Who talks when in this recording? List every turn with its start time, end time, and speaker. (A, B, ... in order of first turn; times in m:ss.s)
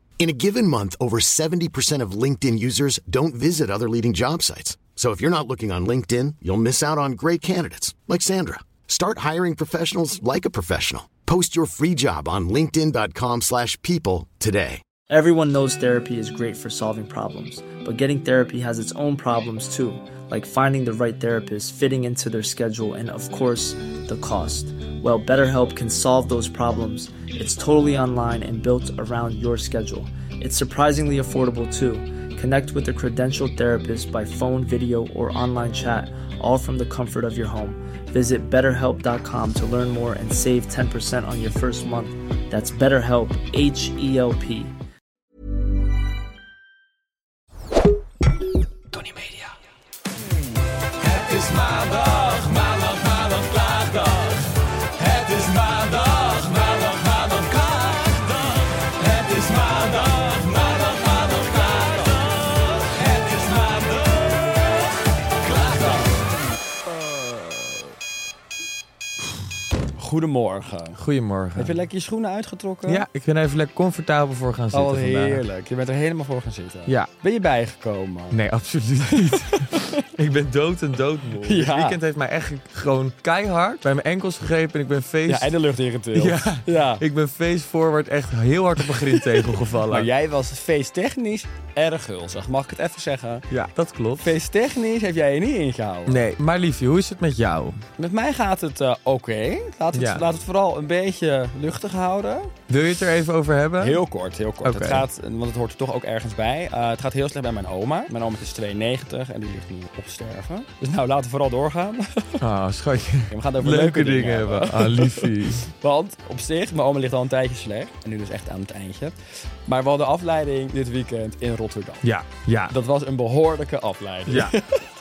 0:00.2-0:14.8 A
0:15.1-0:44.7 B
0:49.0-0:49.5 C
0:51.0-1:04.7 C
1:05.4-1:06.1 C
1:06.9-1:07.7 D
1:10.0-1:11.0 D
1:11.0-1:11.8 E
1:11.6-1:13.0 D
1:12.9-1:15.4 E
1:14.7-1:18.4 D
1:18.3-1:19.6 E
1:19.1-1:20.0 D
1:20.2-1:25.6 E
1:21.4-1:22.0 D
1:25.3-1:27.0 D
1:26.2-1:30.1 E
1:28.8-1:33.5 D
1:33.5-1:34.3 E
1:34.2-1:36.2 D
1:36.1-1:37.8 E
1:38.0-1:42.5 D
1:39.9-1:40.2 E
1:42.7-1:44.0 E
1:43.8-1:52.4 D
1:44.6-1:45.0 E
1:52.4-1:55.6 E
1:53.3-2:02.0 D
2:02.0-2:02.7 E
2:02.7-2:04.8 D
2:04.3-2:04.6 E